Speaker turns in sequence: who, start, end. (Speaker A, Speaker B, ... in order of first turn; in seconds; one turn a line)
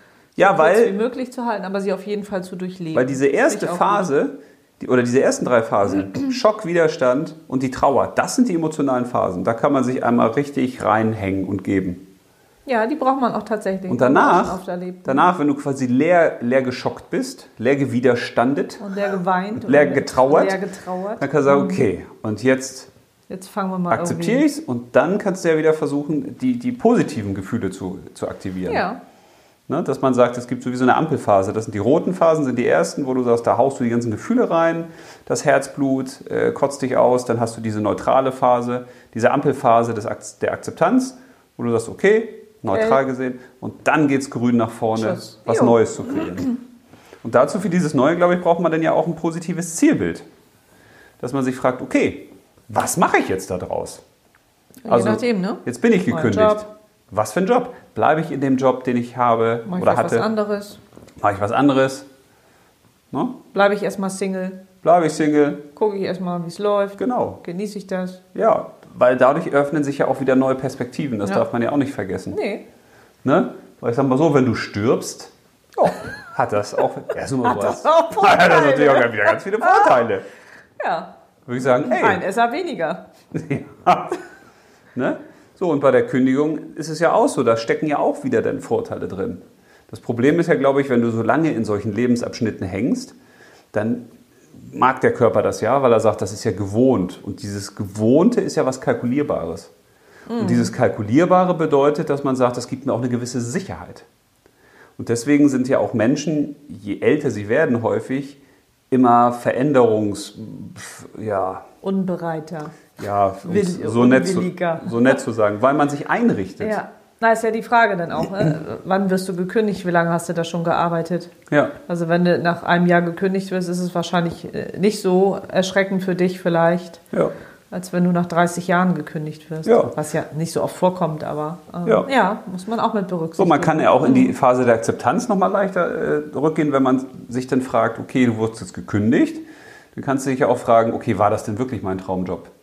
Speaker A: 0.4-0.9
Speaker B: 0.4-4.1
Speaker A: 2.9-12.0
Speaker B: 12.7-15.3
Speaker A: 13.9-18.8
Speaker B: 18.8-21.9
Speaker A: 19.6-20.6
Speaker A: 21.2-22.9
Speaker B: 23.3-24.4
Speaker A: 23.9-28.9
Speaker B: 28.7-29.0
Speaker A: 29.7-46.5
Speaker B: 42.7-43.0
Speaker B: 44.9-46.5
Speaker A: 47.2-50.2
Speaker A: 51.2-54.0
Speaker B: 54.8-56.6
Speaker A: 54.9-60.3
Speaker B: 59.6-60.8
Speaker A: 61.2-62.1
Speaker A: 63.1-63.4
Speaker B: 63.5-64.6
Speaker A: 64.8-65.6
Speaker B: 65.8-68.2
Speaker A: 67.0-67.4
Speaker A: 68.3-72.4
Speaker B: 72.3-72.6
Speaker A: 73.2-80.2
Speaker B: 77.4-80.0
Speaker B: 80.8-81.1
Speaker A: 81.5-82.2
Speaker B: 81.6-83.0
Speaker A: 83.3-84.2
Speaker A: 84.9-93.2
Speaker A: 93.7-99.7
Speaker B: 100.3-100.7
Speaker A: 100.4-104.0
Speaker A: 105.0-108.4
Speaker A: 108.9-111.7
Speaker B: 111.8-112.8
Speaker A: 113.0-116.8
Speaker B: 113.4-115.2
Speaker B: 116.6-121.3
Speaker A: 121.5-121.7
Speaker B: 121.9-127.0
Speaker B: 127.7-134.3
Speaker A: 129.6-129.9
Speaker A: 133.4-142.5